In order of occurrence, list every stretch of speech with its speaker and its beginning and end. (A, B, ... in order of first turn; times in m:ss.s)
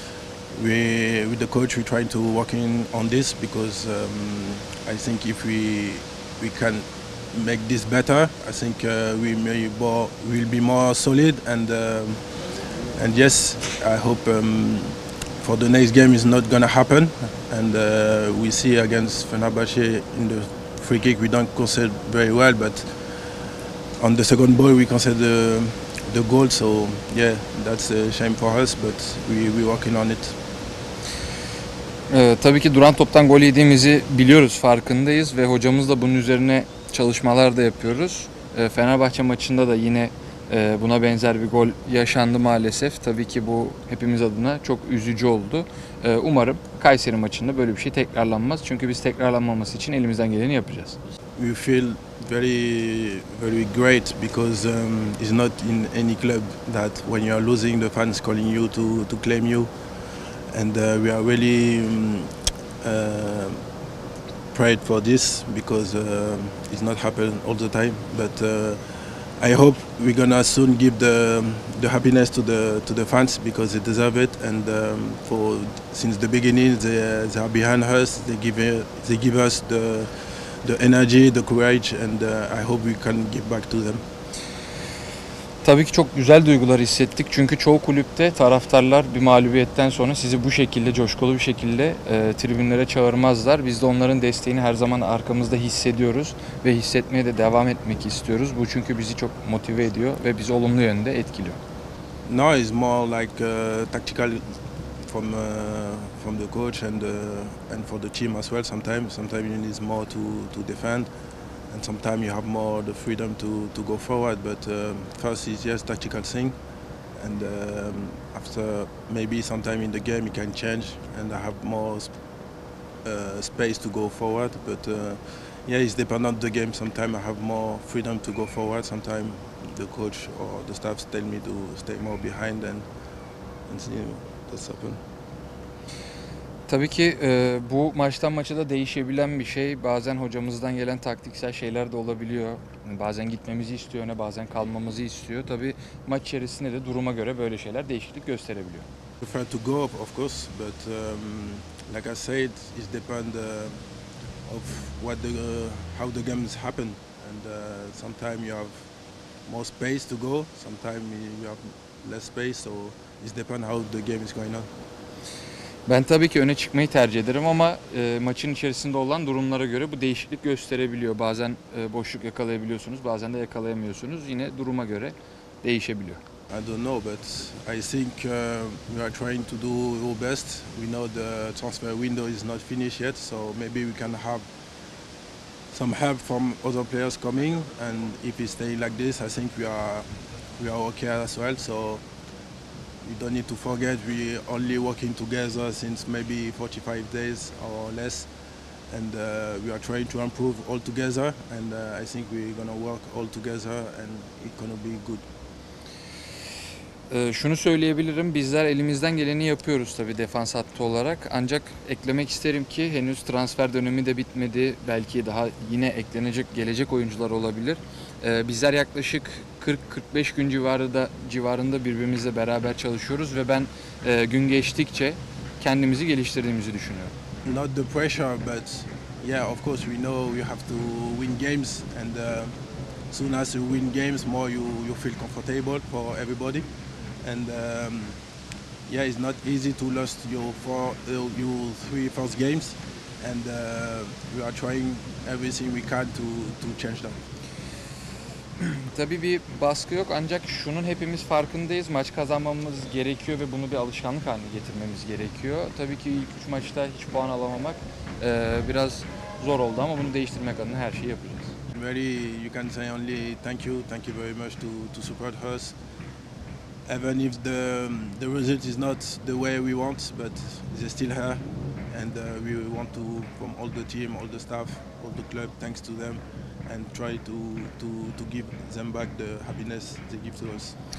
0:00.5-0:12.2 A
0:12.9-0:22.9 A
0:24.0-0:30.4 A
0:32.1-0:51.0 B
0:51.4-0:59.7 A
1:00.5-1:02.3 A
1:02.8-1:03.6 A
1:04.5-1:08.8 A
1:09.4-1:20.1 A
1:20.6-1:24.0 A
1:25.6-1:41.6 B
1:42.3-1:44.4 A
1:45.1-1:51.1 A
1:51.7-1:56.6 A
1:57.2-2:02.1 A
2:03.0-2:12.9 A
2:13.7-2:15.0 A
2:16.7-2:28.9 B
2:29.2-2:33.8 A
2:34.5-2:38.8 A
2:39.5-2:44.7 A
2:45.9-2:56.2 B
2:56.5-3:04.5 A
3:05.7-3:10.1 A
3:10.6-3:12.0 A
3:13.0-3:18.3 A
3:18.9-3:25.2 A
3:27.1-3:47.1 B
3:47.4-3:52.5 A
3:53.1-3:56.7 A
3:57.2-3:58.2 A
3:58.9-4:07.2 A
4:08.6-4:21.6 B
4:21.7-4:25.7 A
4:26.9-4:40.8 A